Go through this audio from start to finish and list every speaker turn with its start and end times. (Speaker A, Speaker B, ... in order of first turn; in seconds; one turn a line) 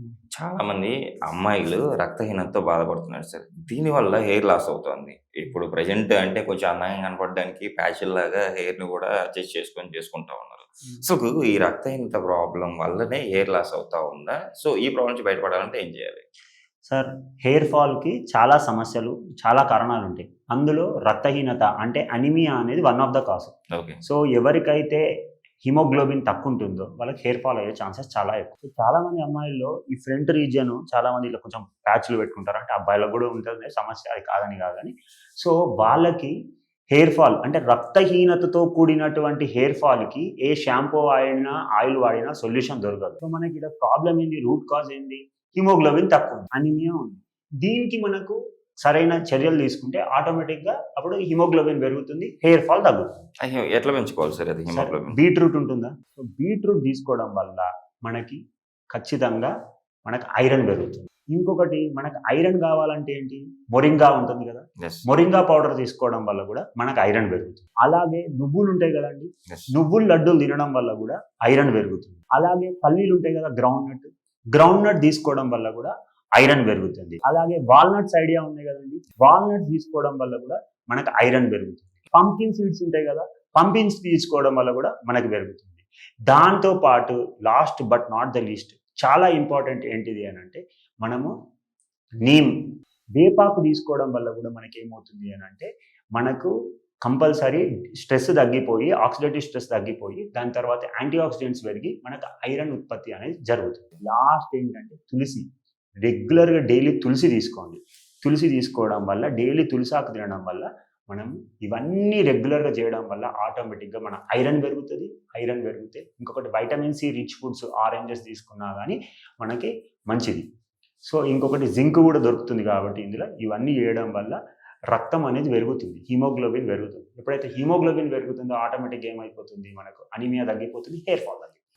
Speaker A: 0.3-16.2
Speaker B: 16.9-25.0
Speaker A: 23.7-24.0
Speaker B: 25.6-36.3
Speaker B: 36.9-53.1
Speaker A: 53.4-55.2
Speaker B: 54.7-58.4
Speaker B: 58.9-59.5
Speaker B: 60.1-91.3
Speaker B: 92.2-92.5
Speaker B: 93.2-96.5
Speaker B: 97.0-105.4
Speaker B: 106.0-120.5
Speaker B: 121.1-124.4
Speaker B: 124.9-131.5